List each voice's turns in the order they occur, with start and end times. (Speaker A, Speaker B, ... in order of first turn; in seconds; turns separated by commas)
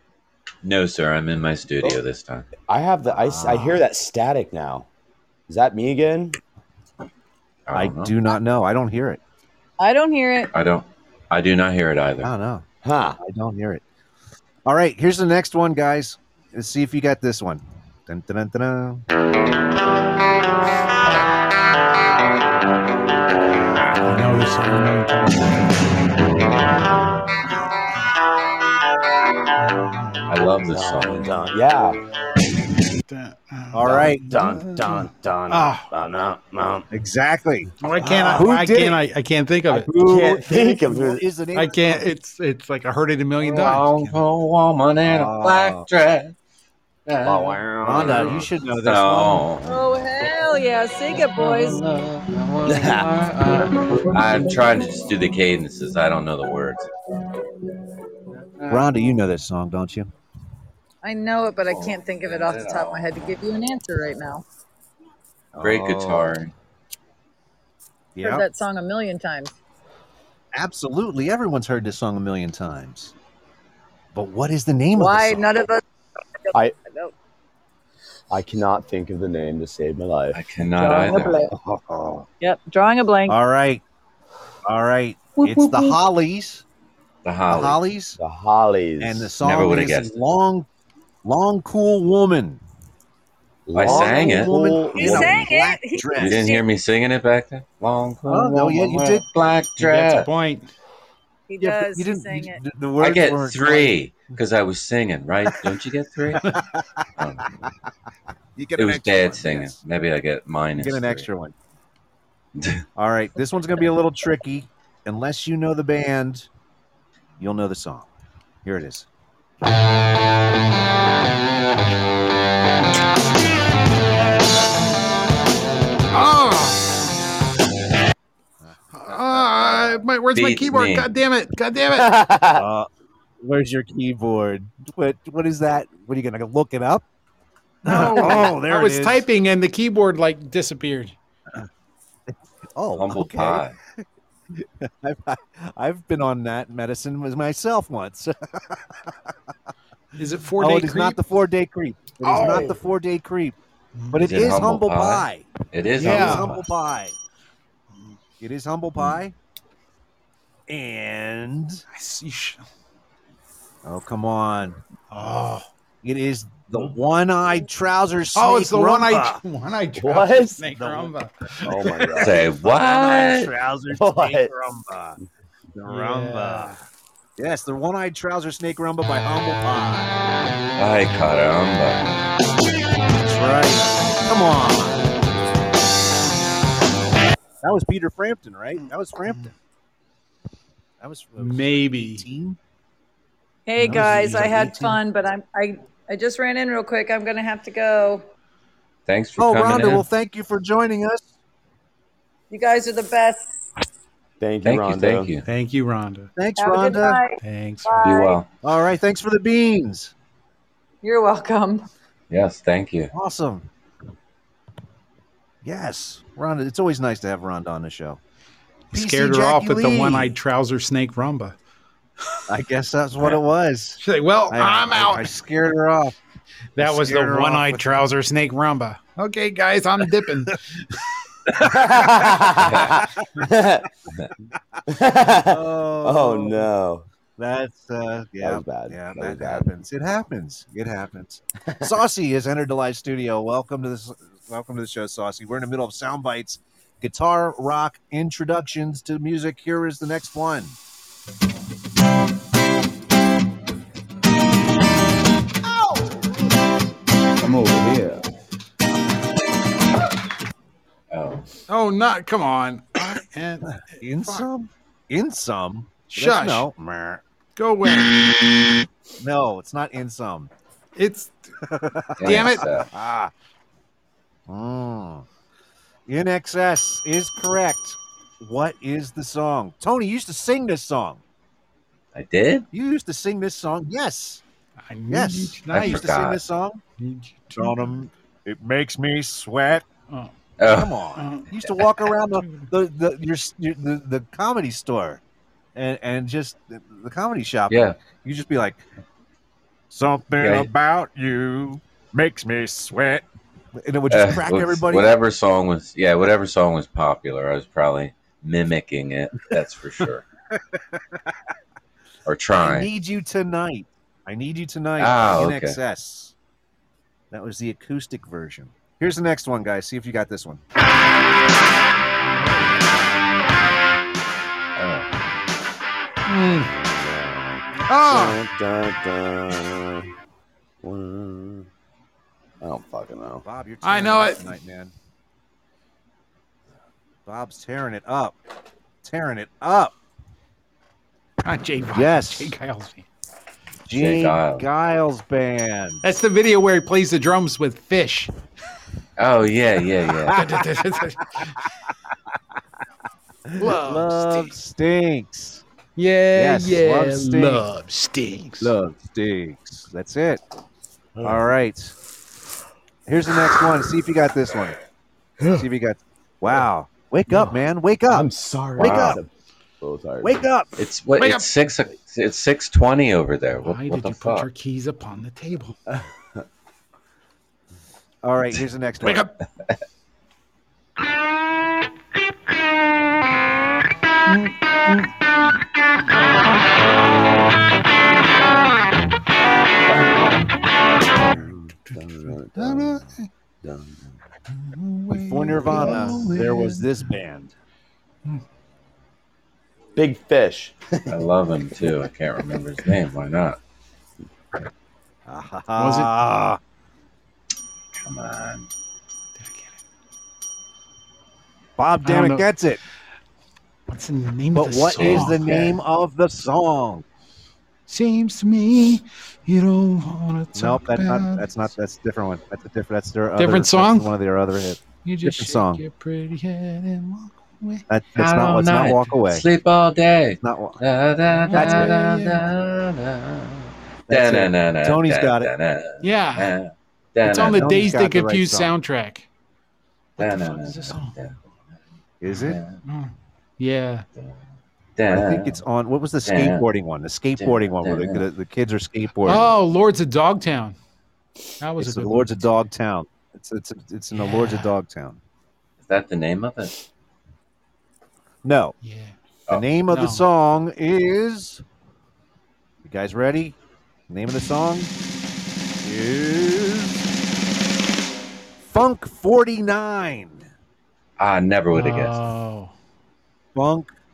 Speaker A: 0.6-2.5, Speaker B: 2.6-4.9, Speaker C: 3.0-3.9, Speaker B: 5.5-6.4, Speaker A: 7.7-8.1, Speaker C: 7.7-9.2, Speaker D: 9.8-10.5, Speaker A: 10.5-12.3, Speaker C: 12.2-12.7, Speaker B: 12.8-13.2, Speaker C: 13.2-13.8, Speaker C: 14.7-19.1, Speaker A: 21.0-21.3, Speaker E: 24.1-26.0, Speaker E: 29.6-30.3, Speaker A: 30.3-31.3, Speaker B: 30.6-32.0, Speaker E: 33.1-35.9, Speaker C: 33.7-34.2, Speaker B: 33.9-36.9, Speaker C: 36.9-39.0, Speaker E: 37.8-39.9, Speaker B: 38.0-38.4, Speaker C: 39.7-42.1, Speaker B: 40.0-41.2, Speaker E: 41.5-44.2, Speaker A: 43.4-46.4, Speaker C: 45.0-45.9, Speaker A: 47.1-50.3, Speaker B: 47.2-48.5, Speaker C: 47.8-49.5, Speaker D: 49.6-51.8, Speaker A: 51.1-56.9, Speaker B: 52.7-53.1, Speaker A: 58.3-59.1, Speaker C: 58.7-60.1, Speaker D: 61.0-64.5, Speaker A: 61.6-63.3, Speaker C: 65.5-66.4, Speaker A: 65.6-66.5, Speaker C: 68.2-68.5, Speaker D: 68.2-69.5, Speaker C: 70.5-73.1, Speaker C: 74.1-75.5, Speaker D: 75.0-75.8, Speaker D: 76.8-77.1, Speaker B: 78.3-80.4, Speaker A: 80.3-81.4, Speaker D: 80.8-81.5, Speaker C: 81.5-82.3, Speaker D: 82.4-83.4, Speaker C: 83.3-83.8, Speaker C: 84.7-86.6, Speaker D: 85.4-85.9, Speaker A: 87.2-87.8, Speaker C: 87.5-88.2, Speaker B: 88.2-89.3, Speaker C: 89.0-90.7, Speaker A: 89.4-90.2, Speaker C: 91.2-92.6, Speaker B: 93.7-95.5, Speaker A: 93.7-94.5, Speaker C: 93.8-96.5, Speaker D: 95.0-96.6, Speaker A: 96.2-100.3, Speaker C: 98.3-99.2, Speaker E: 99.8-100.7, Speaker D: 101.5-102.6, Speaker C: 101.6-104.0, Speaker A: 103.0-106.5, Speaker C: 106.4-107.0, Speaker A: 107.2-107.5, Speaker C: 108.6-109.8, Speaker A: 108.8-111.3, Speaker C: 110.8-111.5, Speaker C: 113.0-116.5, Speaker C: 117.4-118.1, Speaker C: 118.6-119.1, Speaker E: 126.1-126.8, Speaker C: 128.6-130.0, Speaker E: 128.9-132.1, Speaker A: 130.3-131.1, Speaker B: 131.9-132.7, Speaker C: 132.6-132.9, Speaker C: 133.4-137.1, Speaker E: 137.8-141.2, Speaker C: 137.9-139.3, Speaker C: 142.8-143.7, Speaker A: 142.9-143.8, Speaker C: 144.6-149.2, Speaker E: 150.2-151.2, Speaker C: 150.6-153.6, Speaker E: 152.2-152.6, Speaker B: 152.3-152.7, Speaker E: 154.0-154.3, Speaker C: 154.1-157.2, Speaker A: 154.2-156.6, Speaker E: 156.0-156.6, Speaker C: 158.4-159.3, Speaker C: 160.7-161.8, Speaker E: 161.9-162.6, Speaker C: 163.8-164.8, Speaker E: 165.1-165.7, Speaker C: 166.0-169.4, Speaker E: 168.3-172.2, Speaker B: 170.0-170.7, Speaker C: 170.7-171.1, Speaker B: 171.7-172.4, Speaker C: 171.8-175.2, Speaker A: 172.2-173.5, Speaker B: 173.9-174.5, Speaker C: 175.8-176.8, Speaker E: 175.9-176.8, Speaker C: 177.4-180.2, Speaker A: 180.8-182.2, Speaker C: 183.2-185.0, Speaker C: 187.6-189.5, Speaker C: 191.0-192.6, Speaker E: 191.4-192.2, Speaker D: 193.7-198.2, Speaker E: 193.8-194.8, Speaker C: 193.8-195.0, Speaker A: 199.1-200.1, Speaker C: 199.4-201.3, Speaker D: 202.5-203.5, Speaker B: 204.4-205.3, Speaker A: 204.6-205.4, Speaker E: 205.5-206.3, Speaker C: 206.4-207.2, Speaker D: 206.6-208.4, Speaker E: 207.4-208.0, Speaker A: 208.0-208.5, Speaker C: 208.6-210.1, Speaker D: 211.0-211.8, Speaker A: 212.3-213.1, Speaker C: 213.1-213.7, Speaker C: 215.6-218.2, Speaker C: 218.9-220.3, Speaker E: 218.9-221.6, Speaker C: 222.5-226.1, Speaker E: 224.0-225.3, Speaker E: 226.8-230.6, Speaker C: 226.8-228.0, Speaker B: 231.6-233.9, Speaker A: 232.6-233.0, Speaker B: 234.9-237.1, Speaker C: 235.4-236.7, Speaker C: 237.4-250.8, Speaker B: 238.4-239.7, Speaker B: 257.5-258.2, Speaker A: 261.1-261.5, Speaker E: 261.7-264.5, Speaker C: 264.0-267.2, Speaker E: 266.1-266.7, Speaker E: 267.6-268.3, Speaker C: 269.2-270.5, Speaker E: 271.0-271.3, Speaker C: 271.6-273.3, Speaker A: 272.2-272.9, Speaker E: 272.2-272.7, Speaker C: 274.5-275.3, Speaker C: 276.1-281.2, Speaker A: 282.1-282.7, Speaker C: 282.7-284.4, Speaker E: 284.9-286.1, Speaker C: 285.1-286.8, Speaker A: 285.7-286.4, Speaker E: 287.0-287.9, Speaker C: 287.5-289.9, Speaker A: 290.6-291.0, Speaker C: 290.6-295.2, Speaker E: 291.2-291.5, Speaker E: 292.3-292.6, Speaker C: 295.8-298.8, Speaker A: 297.7-298.0, Speaker C: 299.9-303.2, Speaker A: 300.4-300.7, Speaker C: 303.8-305.2, Speaker A: 304.1-310.2, Speaker A: 312.3-312.9, Speaker C: 312.6-316.3, Speaker A: 315.0-315.8, Speaker C: 317.3-320.6, Speaker A: 324.8-325.1, Speaker E: 326.3-326.7, Speaker B: 326.6-330.1, Speaker E: 327.9-328.4, Speaker B: 330.8-331.7, Speaker B: 332.6-333.4, Speaker C: 333.4-334.9, Speaker E: 333.8-334.5, Speaker C: 337.3-338.4, Speaker C: 339.0-339.9, Speaker E: 341.4-343.1, Speaker C: 341.9-342.6, Speaker C: 343.9-346.0, Speaker A: 343.9-344.7, Speaker E: 346.0-348.3, Speaker A: 349.2-350.5, Speaker E: 350.3-351.6, Speaker C: 353.5-355.6, Speaker E: 353.6-354.5, Speaker E: 356.0-358.7, Speaker C: 356.4-357.7, Speaker C: 358.6-360.4, Speaker B: 361.2-361.5, Speaker C: 361.2-362.0, Speaker C: 363.1-364.8, Speaker B: 365.4-365.7, Speaker C: 365.6-369.2, Speaker B: 368.1-369.3, Speaker A: 368.8-369.2, Speaker B: 369.8-370.4, Speaker C: 370.2-370.7, Speaker A: 370.8-374.5, Speaker E: 371.2-371.5, Speaker E: 373.6-375.8, Speaker C: 378.2-379.2, Speaker E: 379.0-379.3, Speaker E: 384.3-385.1, Speaker B: 389.9-390.4, Speaker B: 391.2-394.2, Speaker E: 392.6-393.3, Speaker E: 394.6-396.9, Speaker C: 395.1-397.6, Speaker B: 400.0-401.2, Speaker A: 401.1-403.6, Speaker C: 405.3-406.6, Speaker E: 405.8-406.1, Speaker A: 407.9-408.7, Speaker E: 409.4-409.7, Speaker C: 411.8-412.8, Speaker E: 412.0-412.5, Speaker E: 413.9-415.7, Speaker C: 414.5-417.1, Speaker A: 414.9-415.7, Speaker E: 417.9-421.7, Speaker C: 420.5-425.8, Speaker E: 423.4-424.1, Speaker E: 425.0-427.9, Speaker C: 427.9-429.5, Speaker A: 428.2-437.8, Speaker C: 430.4-430.8, Speaker E: 431.4-432.4, Speaker C: 431.5-432.0, Speaker C: 434.1-435.5, Speaker E: 436.0-436.6, Speaker E: 437.2-439.3, Speaker C: 437.3-438.7, Speaker E: 440.2-441.1, Speaker A: 440.2-441.4, Speaker C: 442.2-442.6, Speaker A: 442.3-442.8, Speaker E: 442.9-444.1, Speaker A: 445.0-445.6, Speaker C: 445.1-449.6, Speaker A: 446.2-446.7, Speaker A: 447.4-448.3, Speaker E: 449.2-450.8, Speaker E: 451.6-452.5, Speaker C: 451.8-455.2, Speaker E: 454.1-454.7, Speaker A: 455.8-456.8, Speaker C: 458.4-458.8, Speaker E: 458.8-459.1, Speaker C: 459.5-461.6, Speaker E: 459.9-460.3, Speaker C: 462.8-463.6, Speaker C: 464.1-464.9, Speaker C: 465.8-467.0, Speaker C: 468.7-470.5, Speaker A: 471.2-472.2, Speaker E: 471.7-472.7, Speaker C: 473.6-473.9